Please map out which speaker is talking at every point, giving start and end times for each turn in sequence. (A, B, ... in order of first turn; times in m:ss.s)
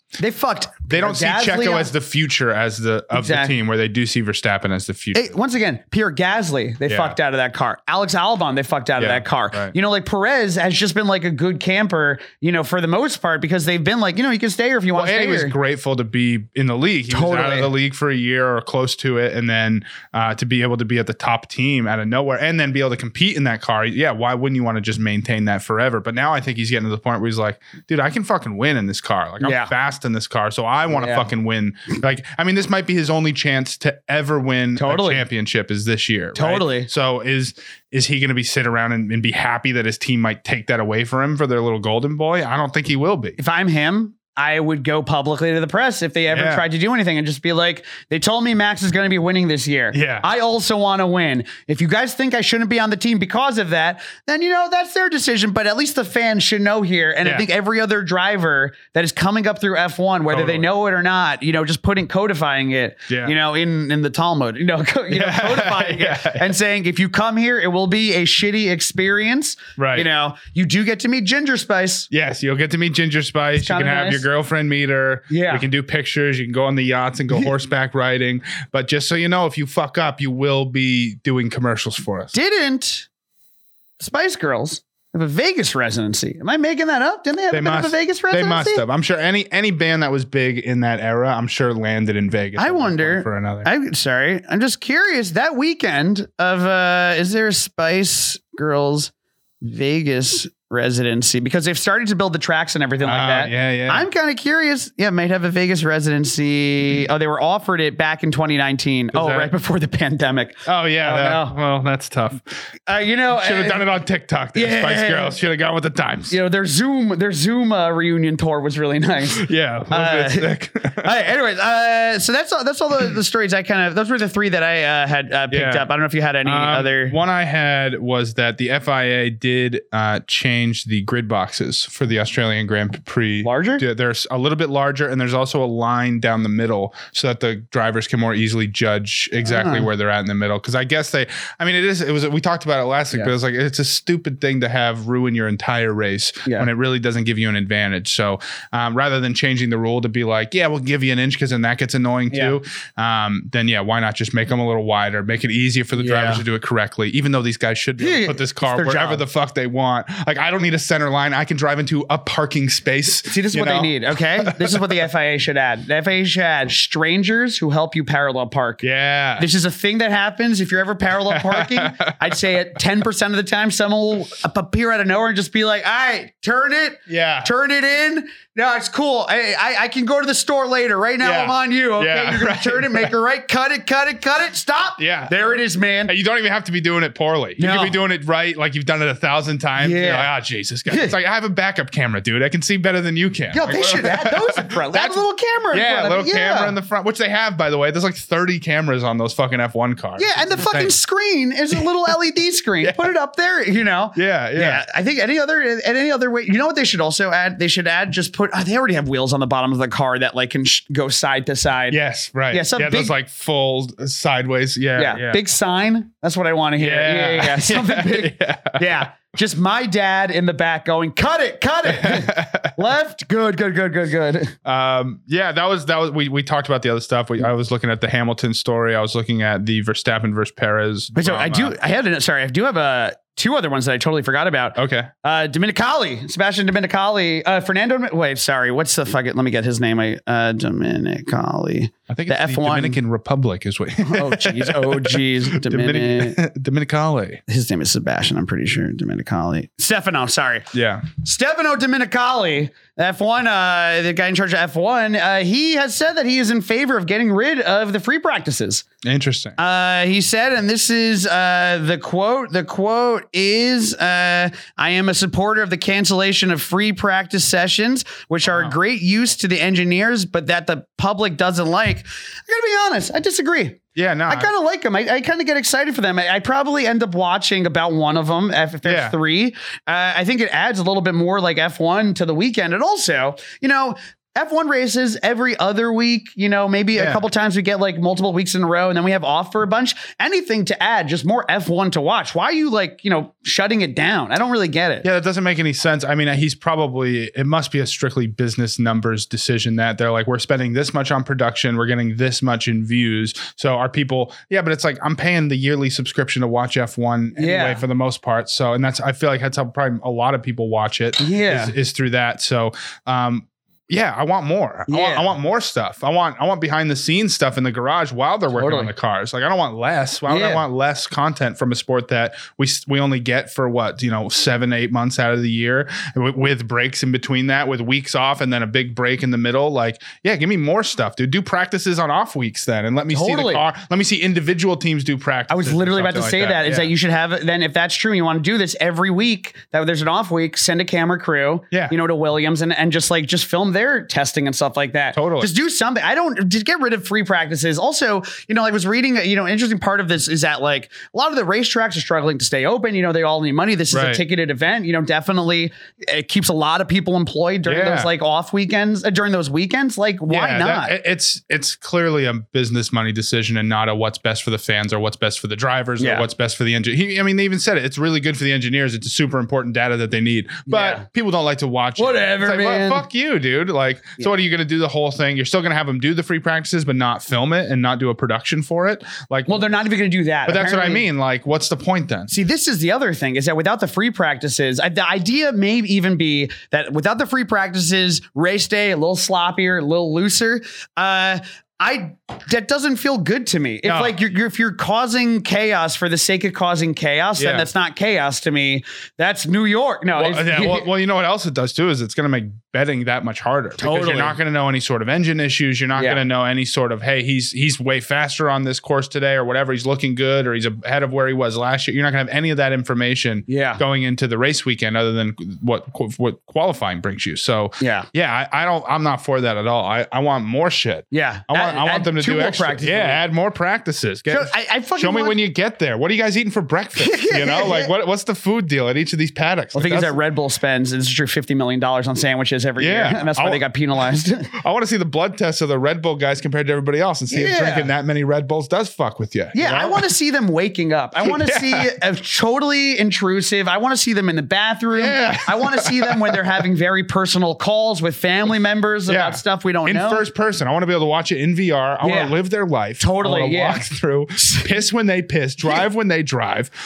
0:00.2-0:01.9 A
0:00.9-0:05.4 B
0:03.1-0:03.6 A
0:05.1-0:15.6 A
0:06.9-0:07.2 B
0:09.0-0:09.7 B
0:14.9-0:43.4 B
0:17.1-0:17.7 A
0:29.4-0:29.7 A
0:30.9-0:31.3 A
0:34.8-0:35.2 A
0:36.4-0:36.9 A
0:43.4-1:12.1 A
0:46.3-0:46.6 B
0:49.9-0:50.3 B
1:00.3-1:00.7 B
1:03.1-1:03.4 B
1:05.1-1:06.5 B
1:09.8-1:10.1 B
1:12.1-1:22.3 B
1:13.6-1:14.3 A
1:15.3-1:15.6 A
1:22.3-1:23.1 A
1:24.0-1:28.8 A
1:27.5-1:33.7 B
1:32.6-1:51.6 A
1:43.0-1:44.1 B
1:49.1-1:49.5 B
1:50.6-1:52.5 B
1:52.9-1:53.8 A
1:53.3-1:56.4 B
1:54.6-1:55.4 A
1:56.3-2:07.2 A
1:59.4-2:01.1 B
2:05.5-2:05.9 B
2:06.4-2:44.9 B
2:13.4-2:13.8 A
2:19.4-2:19.9 A
2:32.3-2:32.6 A
2:36.0-2:36.4 A
2:38.0-2:39.2 A
2:43.3-2:48.8 A
2:48.8-2:49.5 B
2:49.4-3:06.1 A
2:51.3-2:52.4 B
2:57.1-2:57.5 B
3:01.2-3:03.1 B
3:05.0-3:05.3 B
3:06.1-3:20.9 B
3:07.6-3:08.0 A
3:09.8-3:10.3 A
3:10.9-3:11.1 A
3:13.5-3:16.8 A
3:20.2-3:32.0 A
3:24.2-3:24.8 B
3:31.9-3:35.4 B
3:32.5-3:33.1 A
3:35.0-3:44.6 A
3:36.8-3:39.0 B
3:41.8-3:42.8 B
3:44.6-3:51.8 B
3:51.1-4:03.0 A
3:54.8-3:55.1 B
4:02.1-4:07.4 B
4:04.0-4:06.4 A
4:07.5-4:18.8 A
4:10.7-4:11.0 B
4:19.0-4:19.6 B
4:19.6-4:55.1 A
4:28.4-4:28.8 B
4:34.0-4:34.5 B
4:38.8-4:39.2 B
4:47.0-4:47.2 B
4:55.0-5:36.9 B
5:07.4-5:07.8 A
5:11.2-5:11.7 A
5:14.9-5:15.3 A
5:18.5-5:18.9 A
5:20.3-5:20.6 A
5:33.1-5:33.6 A
5:35.5-6:00.9 A
5:45.1-5:45.5 B
5:53.9-5:54.2 B
5:57.6-5:58.1 B
6:00.3-6:19.7 B
6:06.0-6:06.3 A
6:10.7-6:11.0 A
6:12.0-6:13.0 A
6:19.5-6:21.1 A
6:20.4-6:22.3 B
6:22.3-6:40.9 A
6:33.8-6:34.2 B
6:37.4-6:37.7 B
6:40.2-7:10.2 B
6:43.8-6:44.4 A
6:46.0-6:46.2 A
6:53.5-6:53.8 A
6:57.8-6:58.1 A
7:01.1-7:03.2 A
7:04.3-7:05.4 A
7:07.0-7:07.9 A
7:09.7-7:14.5 A
7:12.8-7:13.6 B
7:14.6-7:20.0 B
7:17.3-7:17.9 A
7:19.5-7:30.2 A
7:21.2-7:21.9 B
7:24.9-7:26.4 B
7:29.1-7:36.7 B
7:32.0-7:32.3 A
7:33.0-7:33.8 A
7:34.4-7:34.7 A